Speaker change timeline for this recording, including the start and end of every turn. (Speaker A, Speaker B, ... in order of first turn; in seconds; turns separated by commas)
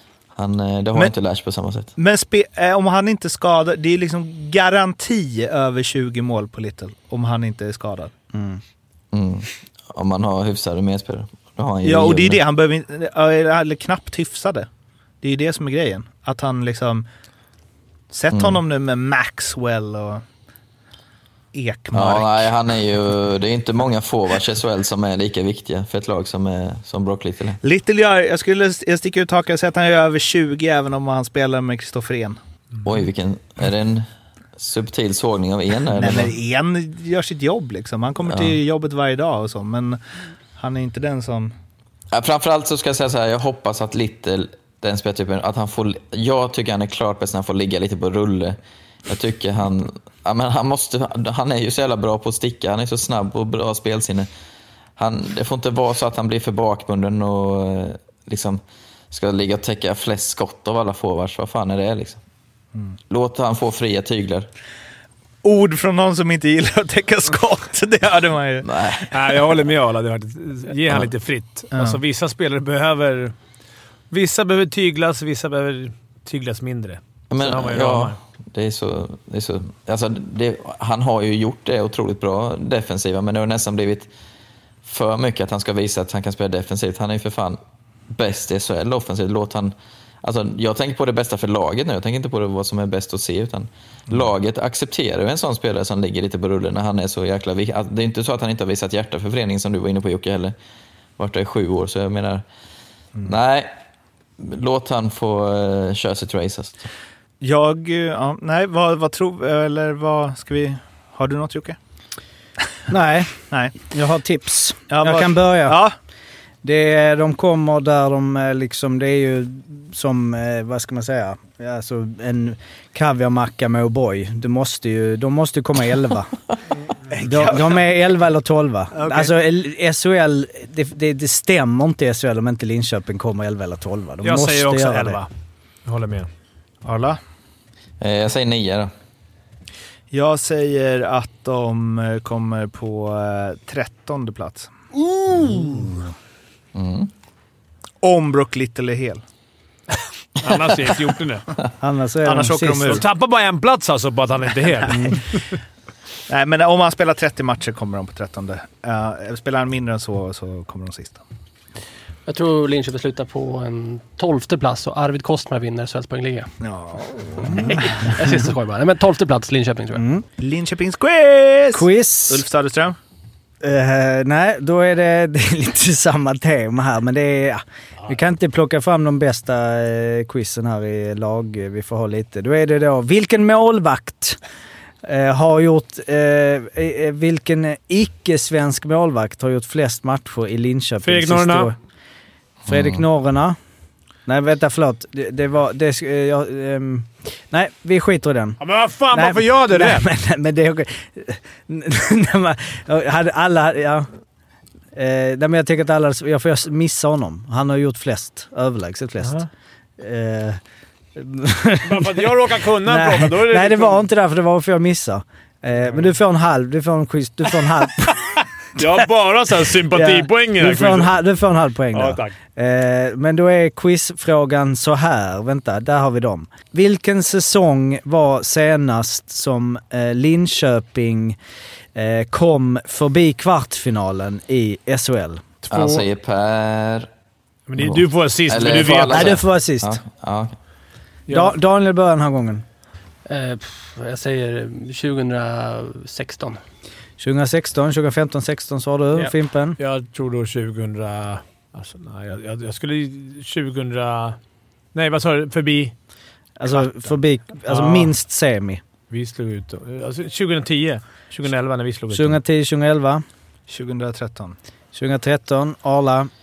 Speaker A: 0.3-1.9, Speaker B: 2.0-8.1, Speaker C: 8.3-8.6, Speaker A: 9.1-12.4, Speaker B: 11.8-14.7, Speaker B: 15.2-17.1, Speaker B: 18.1-20.2, Speaker A: 18.3-18.6, Speaker B: 21.5-22.5, Speaker A: 21.9-27.6, Speaker B: 27.6-32.4, Speaker A: 32.8-34.0, Speaker A: 34.6-36.3, Speaker B: 36.0-40.0, Speaker B: 40.6-41.5, Speaker A: 42.1-54.3, Speaker A: 55.0-62.2, Speaker A: 63.1-64.5, Speaker B: 65.4-68.7, Speaker A: 68.6-69.1, Speaker D: 69.1-73.3, Speaker B: 71.7-72.0, Speaker D: 74.1-78.2, Speaker A: 77.3-84.1, Speaker A: 84.8-87.6, Speaker A: 88.1-100.6, Speaker A: 101.2-102.4, Speaker A: 103.2-103.7, Speaker A: 104.4-106.9, Speaker B: 107.4-111.8, Speaker C: 112.9-115.8, Speaker B: 114.9-115.9, Speaker C: 116.6-126.3, Speaker B: 127.1-127.8, Speaker C: 127.2-135.2, Speaker D: 129.0-129.3, Speaker D: 134.2-135.3, Speaker D: 135.8-136.3, Speaker B: 136.8-137.2, Speaker A: 138.0-138.9, Speaker B: 140.1-144.7, Speaker C: 145.4-145.8, Speaker A: 146.7-147.1, Speaker B: 148.0-149.2, Speaker D: 150.4-151.5, Speaker C: 151.8-153.0, Speaker B: 152.2-153.1, Speaker D: 152.8-155.4, Speaker C: 154.9-155.2, Speaker B: 156.3-161.2, Speaker E: 162.3-166.5, Speaker B: 166.6-167.8, Speaker E: 167.6-170.1, Speaker C: 169.9-170.2, Speaker B: 170.4-172.9, Speaker C: 171.7-172.4, Speaker C: 173.6-184.4, Speaker C: 185.0-191.8, Speaker D: 191.0-191.7, Speaker C: 192.7-193.6, Speaker C: 194.2-198.6, Speaker D: 198.6-200.0, Speaker C: 199.1-204.1, Speaker C: 204.9-209.5, Speaker C: 210.0-210.6, Speaker C: 211.2-212.2, Speaker D: 211.8-214.0, Speaker C: 212.8-218.2, Speaker D: 218.8-221.1, Speaker C: 219.9-231.4, Speaker D: 221.9-222.3, Speaker C: 231.9-235.4, Speaker D: 235.7-236.0, Speaker A: 235.7-237.1, Speaker D: 237.7-239.4, Speaker A: 237.8-240.6, Speaker C: 239.1-240.0, Speaker D: 241.3-241.5, Speaker C: 241.3-242.7, Speaker E: 243.2-246.6, Speaker C: 247.2-249.8, Speaker D: 249.8-254.4, Speaker D: 254.9-255.9, Speaker C: 256.6-258.8, Speaker D: 257.6-258.1, Speaker D: 259.1-262.4, Speaker C: 262.1-263.2, Speaker B: 263.7-264.6, Speaker C: 264.9-266.3